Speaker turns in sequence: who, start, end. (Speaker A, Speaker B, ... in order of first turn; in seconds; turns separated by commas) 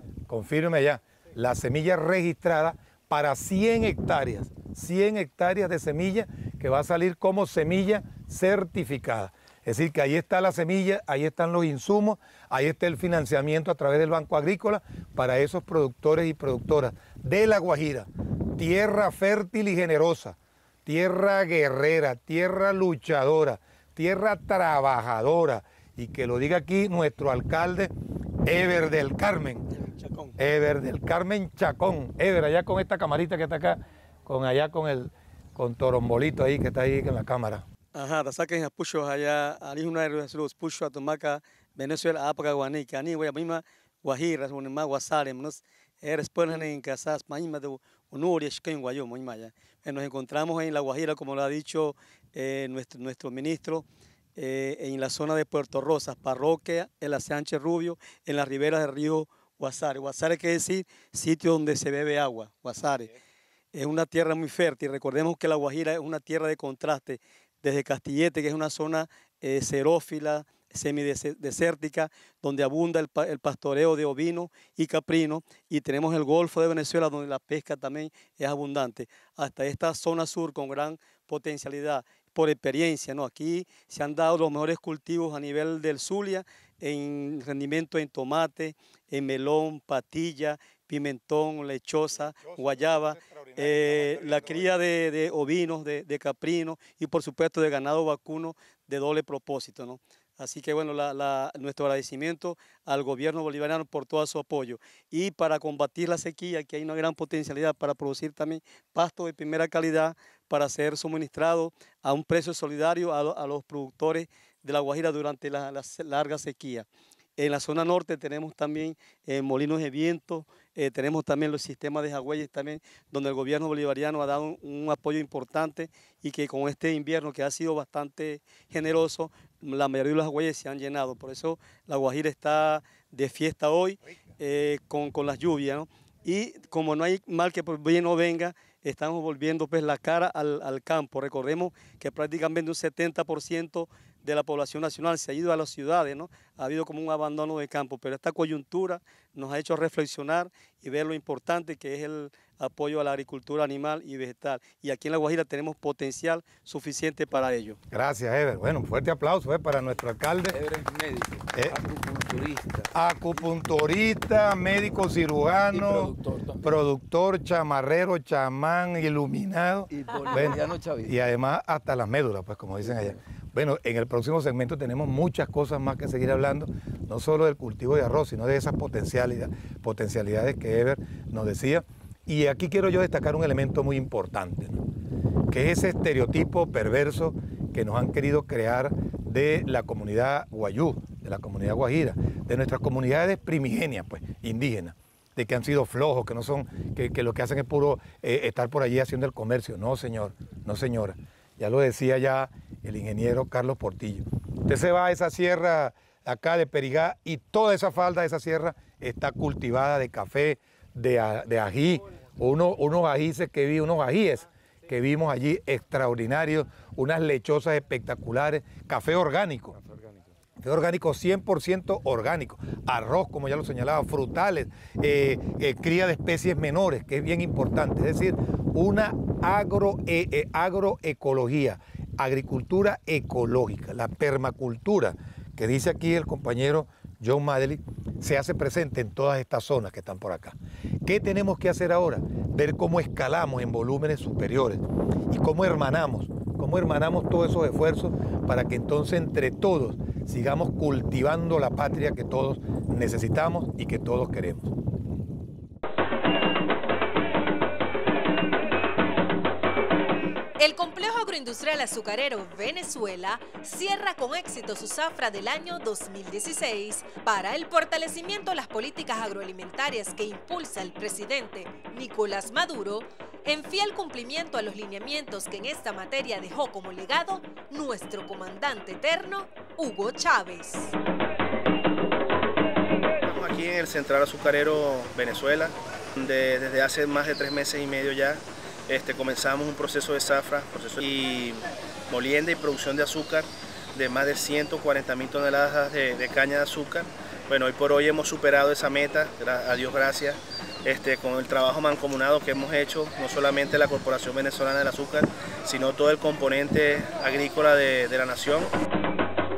Speaker A: 0.3-27.9, Speaker A: 28.4-29.7, Speaker B: 29.7-30.4, Speaker A: 30.4-37.6, Speaker B: 38.0-63.1, Speaker B: 63.7-116.9, Speaker A: 92.2-94.7, Speaker B: 117.4-157.8, Speaker A: 157.9-160.6, Speaker C: 160.5-162.9, Speaker A: 162.9-184.8, Speaker C: 165.7-166.8, Speaker C: 169.9-171.2, Speaker C: 172.8-173.2, Speaker A: 185.5-219.8, Speaker C: 219.8-220.2, Speaker A: 220.6-254.7, Speaker D: 260.6-281.0, Speaker E: 283.2-308.7